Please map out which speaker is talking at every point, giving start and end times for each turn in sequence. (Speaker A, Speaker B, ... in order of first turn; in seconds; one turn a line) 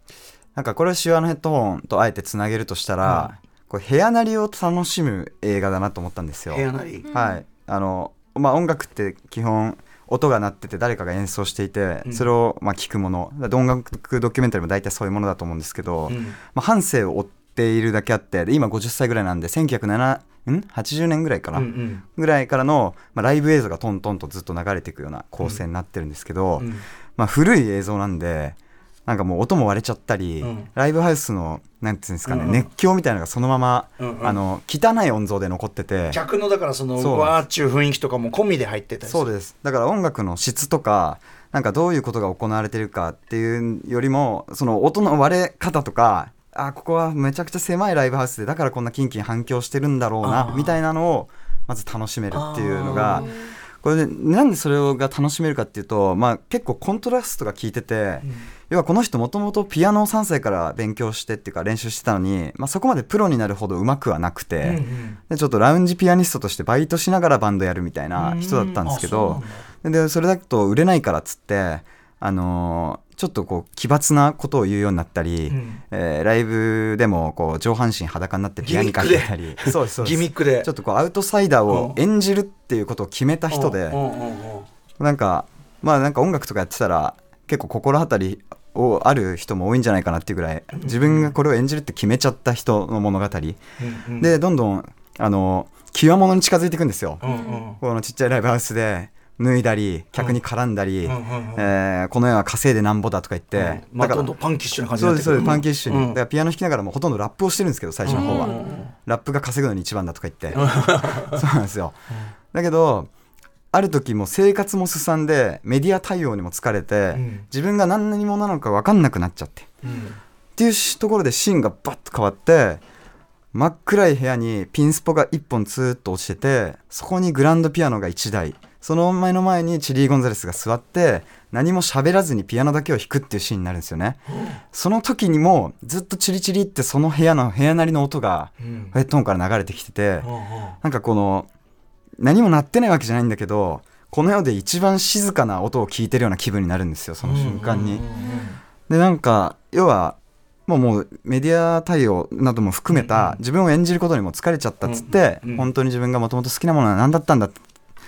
Speaker A: 0.6-36.2
Speaker B: 3.0-3.4
Speaker B: 6.5-7.1
Speaker B: 12.1-12.3
Speaker B: 16.1-16.4
Speaker B: 21.5-22.0
Speaker B: 26.6-26.9
Speaker B: 30.4-30.7
Speaker B: 32.3-32.7
Speaker B: 34.0-34.4
Speaker B: 36.1-39.3
Speaker A: 37.0-37.4
Speaker A: 39.1-84.0
Speaker B: 50.2-50.8
Speaker B: 52.3-53.4
Speaker B: 64.6-65.2
Speaker B: 68.2-69.6
Speaker B: 75.5-75.8
Speaker B: 78.6-80.7
Speaker B: 81.7-82.0
Speaker B: 83.5-84.7
Speaker A: 85.0-93.6
Speaker B: 90.8-91.3
Speaker B: 93.8-94.3
Speaker A: 94.2-97.2
Speaker B: 97.2-97.8
Speaker A: 97.8-104.3
Speaker B: 101.0-101.7
Speaker B: 103.5-106.2
Speaker A: 105.0-112.0
Speaker B: 108.0-108.9
Speaker B: 110.5-111.4
Speaker A: 112.5-113.1
Speaker A: 113.7-119.7
Speaker B: 117.1-117.5
Speaker B: 119.8-120.2
Speaker A: 120.6-122.8
Speaker A: 123.5-141.5
Speaker B: 138.6-138.9
Speaker B: 140.2-140.8
Speaker A: 142.2-148.1
Speaker B: 147.2-148.6
Speaker A: 148.9-157.6
Speaker B: 152.9-153.4
Speaker B: 154.8-155.7